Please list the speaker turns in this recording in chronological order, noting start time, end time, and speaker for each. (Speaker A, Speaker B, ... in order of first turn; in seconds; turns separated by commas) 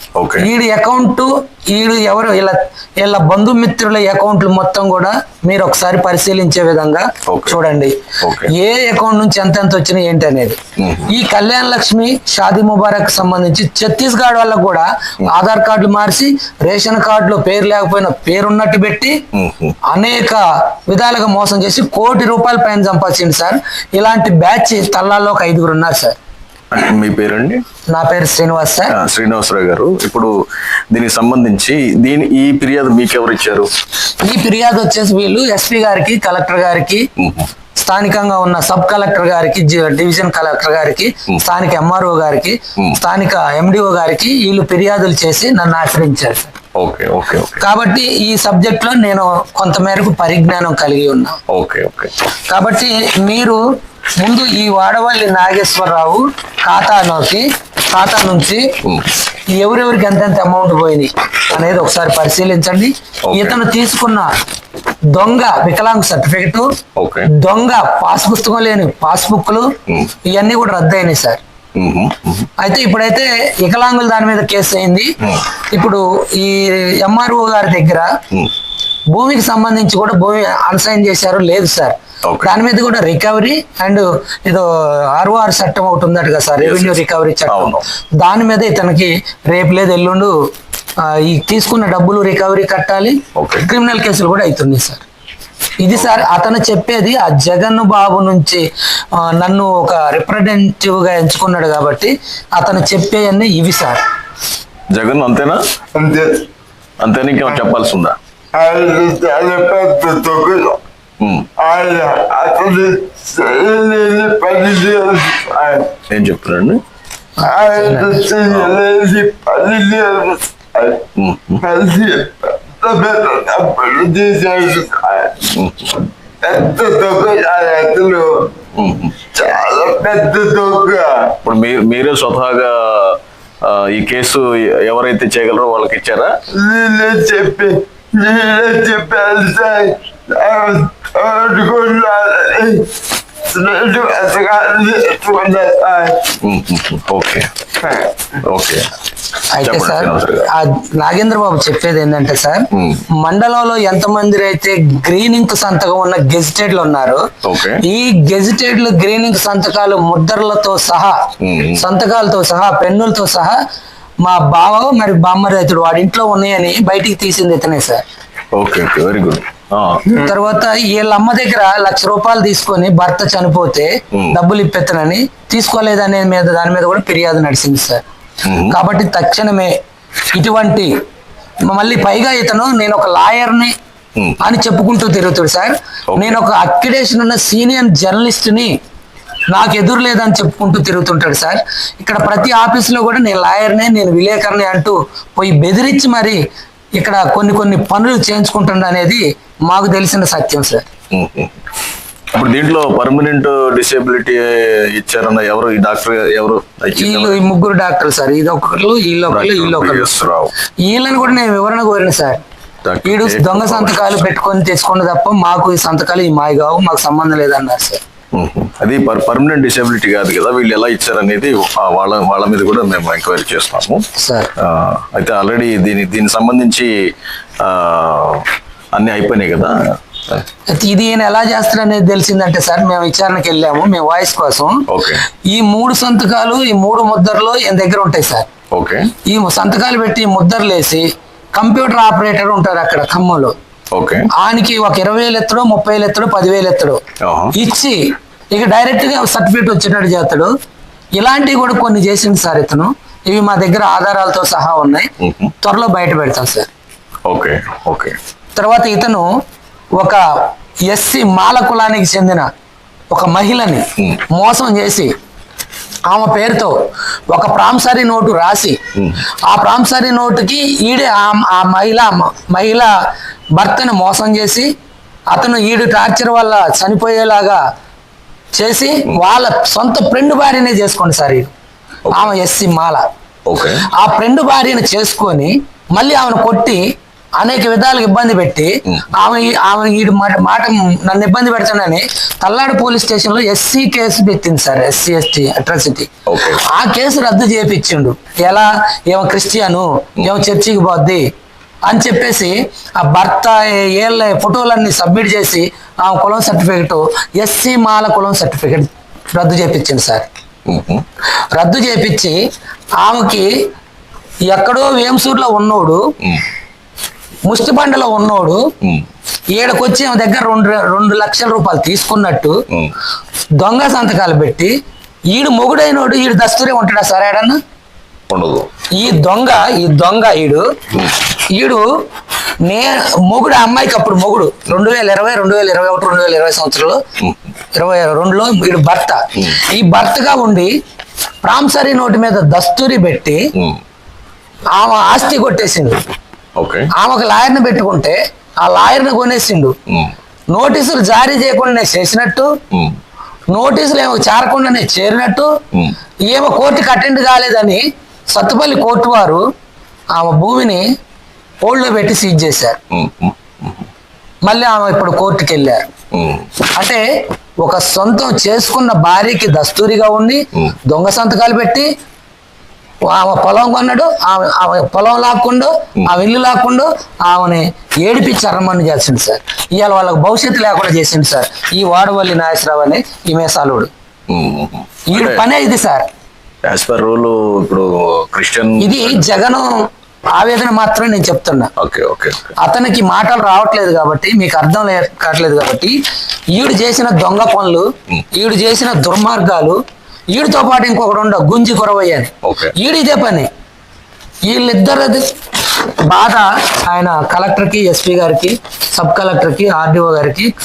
Speaker A: 0.2-0.5, Speaker B: 0.4-7.9, Speaker A: 7.3-7.6, Speaker A: 8.2-8.5, Speaker B: 8.5-19.2, Speaker A: 10.8-11.1, Speaker A: 19.3-19.8, Speaker B: 19.9-26.1, Speaker A: 26.7-27.6, Speaker B: 27.9-28.9, Speaker A: 28.9-30.3, Speaker A: 30.9-33.7, Speaker B: 34.2-37.1, Speaker A: 37.2-37.5, Speaker B: 37.8-46.6, Speaker A: 46.8-47.7, Speaker B: 47.6-51.4, Speaker A: 51.5-52.1, Speaker B: 52.5-53.6, Speaker B: 54.2-58.6, Speaker A: 58.8-59.1, Speaker B: 59.5-64.3, Speaker A: 61.5-61.8, Speaker A: 63.3-63.6, Speaker B: 65.1-66.7, Speaker A: 67.0-67.3, Speaker B: 67.4-69.7, Speaker A: 69.9-70.1, Speaker B: 70.3-71.4, Speaker A: 71.8-72.5, Speaker B: 72.6-75.1, Speaker B: 75.7-78.1, Speaker B: 79.1-90.3, Speaker A: 82.2-82.6, Speaker A: 86.6-87.9, Speaker B: 91.0-95.0, Speaker A: 93.3-93.7, Speaker B: 95.8-104.0, Speaker A: 95.9-96.2, Speaker A: 104.9-105.6, Speaker C: 105.9-106.5, Speaker A: 107.0-108.2, Speaker C: 108.5-110.8, Speaker A: 111.2-111.5, Speaker C: 111.6-115.9, Speaker A: 116.1-116.8, Speaker B: 117.4-118.2, Speaker C: 117.4-121.1, Speaker A: 118.5-118.8, Speaker A: 121.2-121.6, Speaker C: 121.6-125.5, Speaker A: 125.5-126.0, Speaker C: 126.4-128.5, Speaker A: 128.8-129.2, Speaker C: 129.2-131.4, Speaker A: 131.4-136.3, Speaker C: 136.5-142.9, Speaker C: 143.4-146.3, Speaker A: 146.4-147.5, Speaker C: 147.8-148.3, Speaker A: 148.4-148.9, Speaker B: 149.5-152.6, Speaker A: 149.6-150.5, Speaker A: 152.7-153.0, Speaker B: 153.2-157.2, Speaker A: 157.4-157.8, Speaker B: 157.8-161.2, Speaker A: 161.4-161.8, Speaker B: 161.8-163.6, Speaker B: 164.2-168.0, Speaker A: 168.5-170.1, Speaker B: 170.1-178.0, Speaker A: 178.4-178.8, Speaker B: 178.7-179.8, Speaker B: 180.3-180.9, Speaker B: 181.7-183.7, Speaker A: 184.2-184.4, Speaker B: 184.4-188.8, Speaker A: 186.1-186.4, Speaker B: 189.5-196.4, Speaker B: 197.0-200.8, Speaker A: 201.1-201.6, Speaker A: 202.3-207.4, Speaker B: 207.0-210.2, Speaker A: 209.3-210.5, Speaker B: 210.8-212.4, Speaker A: 212.8-214.3, Speaker B: 213.0-218.0, Speaker A: 218.3-224.0, Speaker B: 224.2-224.5, Speaker A: 224.6-226.9, Speaker A: 227.6-230.4, Speaker B: 230.7-234.8, Speaker A: 234.9-235.2, Speaker B: 235.5-238.5, Speaker A: 238.7-239.1, Speaker B: 239.2-243.6, Speaker A: 243.9-244.3, Speaker B: 244.4-247.0, Speaker A: 247.2-247.5, Speaker B: 247.5-248.0, Speaker B: 248.5-250.5, Speaker B: 251.2-255.1, Speaker A: 255.2-255.5, Speaker B: 255.6-256.7, Speaker A: 257.2-258.1, Speaker B: 258.6-259.3, Speaker B: 259.9-260.2, Speaker B: 260.9-262.5, Speaker B: 263.1-265.1, Speaker B: 266.1-266.8, Speaker B: 267.3-268.8, Speaker A: 269.0-269.2, Speaker B: 269.4-272.9, Speaker B: 273.6-274.7, Speaker B: 275.3-277.6, Speaker B: 278.5-281.5, Speaker A: 282.1-282.4, Speaker B: 282.1-283.1, Speaker A: 283.5-283.9, Speaker B: 283.9-286.8, Speaker B: 287.4-301.2, Speaker A: 296.3-296.6, Speaker B: 301.9-310.2, Speaker A: 310.7-311.0, Speaker B: 311.5-312.4, Speaker B: 313.0-313.5, Speaker B: 314.5-316.0, Speaker B: 317.4-318.6, Speaker A: 318.8-319.1, Speaker B: 319.5-322.6, Speaker A: 322.7-323.0, Speaker B: 323.6-324.7, Speaker B: 325.3-327.6, Speaker A: 328.3-328.7, Speaker B: 328.9-330.6, Speaker B: 331.5-331.9, Speaker B: 332.6-337.0, Speaker A: 337.2-337.5, Speaker B: 337.8-340.8, Speaker B: 341.4-343.4, Speaker B: 344.8-346.0, Speaker A: 346.6-346.9, Speaker B: 346.9-349.8, Speaker B: 350.5-352.5, Speaker B: 353.5-355.5, Speaker B: 356.2-359.4, Speaker B: 360.1-360.8, Speaker B: 361.6-362.8, Speaker A: 362.9-363.9, Speaker B: 364.4-365.9, Speaker A: 366.1-366.5, Speaker B: 366.7-367.0, Speaker B: 367.6-371.9, Speaker B: 373.1-383.9, Speaker A: 384.3-385.4, Speaker B: 385.1-386.1, Speaker A: 386.6-389.4, Speaker B: 388.8-391.7, Speaker A: 391.8-392.6, Speaker B: 392.6-396.0, Speaker B: 396.5-399.8, Speaker B: 400.3-403.5, Speaker A: 402.4-402.7, Speaker B: 404.4-410.5